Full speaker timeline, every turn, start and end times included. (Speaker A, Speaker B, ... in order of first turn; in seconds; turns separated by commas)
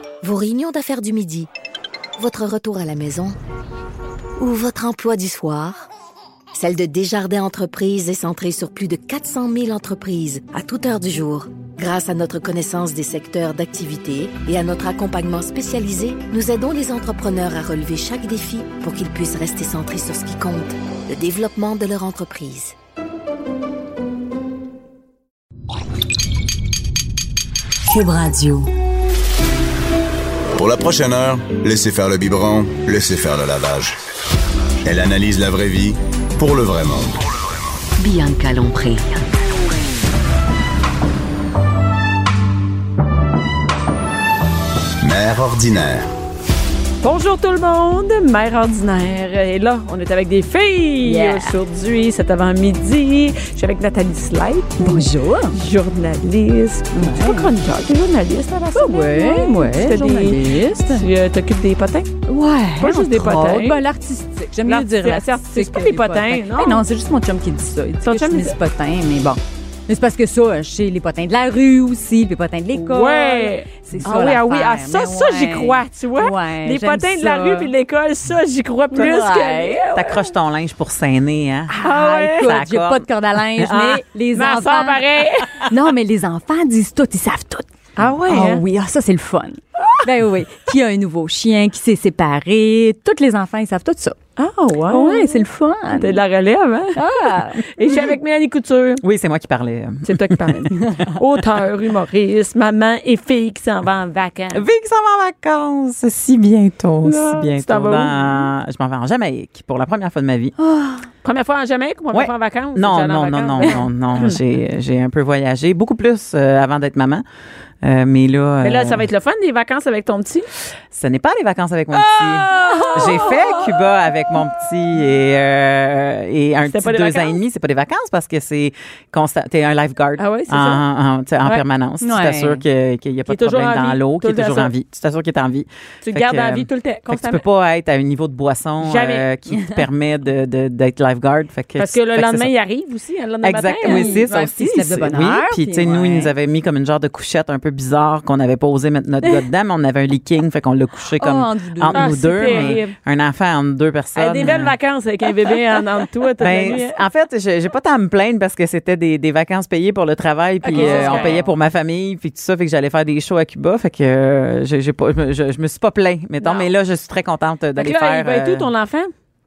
Speaker A: 0.2-1.5, Speaker A: 2.2-3.4, Speaker A: 4.4-5.8, Speaker A: 6.5-22.8, Speaker A: 27.9-28.7, Speaker B: 30.5-34.0, Speaker B: 34.8-37.2, Speaker A: 38.0-39.2, Speaker B: 45.0-46.1, Speaker C: 47.0-62.1, Speaker D: 51.0-51.5, Speaker D: 54.8-55.6, Speaker D: 56.9-57.5, Speaker D: 58.8-61.1, Speaker D: 62.3-77.7, Speaker C: 62.8-63.8, Speaker C: 64.7-66.8, Speaker C: 68.1-68.5, Speaker C: 72.8-80.3, Speaker D: 78.9-79.9, Speaker E: 79.9-81.8, Speaker D: 81.7-94.2, Speaker C: 81.8-82.5, Speaker E: 82.4-83.1, Speaker C: 83.6-85.7, Speaker C: 88.0-88.6, Speaker C: 94.4-97.0, Speaker D: 94.9-96.2, Speaker D: 97.0-97.6, Speaker C: 97.6-99.0, Speaker E: 99.0-101.0, Speaker C: 100.0-104.7, Speaker D: 100.8-101.1, Speaker E: 104.5-110.5, Speaker C: 107.0-108.5, Speaker D: 110.6-111.1, Speaker C: 111.2-114.4, Speaker E: 112.1-117.2, Speaker E: 117.8-119.0, Speaker C: 118.6-120.5, Speaker E: 120.9-142.5, Speaker C: 121.9-123.8, Speaker C: 126.7-127.4, Speaker C: 130.2-130.8, Speaker D: 132.0-132.6, Speaker C: 133.3-134.7, Speaker C: 136.0-137.4, Speaker C: 138.8-139.2, Speaker C: 141.8-144.8, Speaker E: 143.4-154.8, Speaker D: 143.8-146.3, Speaker D: 151.2-152.8, Speaker C: 151.9-152.9, Speaker C: 154.2-157.0, Speaker E: 156.4-168.7, Speaker C: 160.7-161.4, Speaker D: 160.7-161.4, Speaker C: 167.8-169.1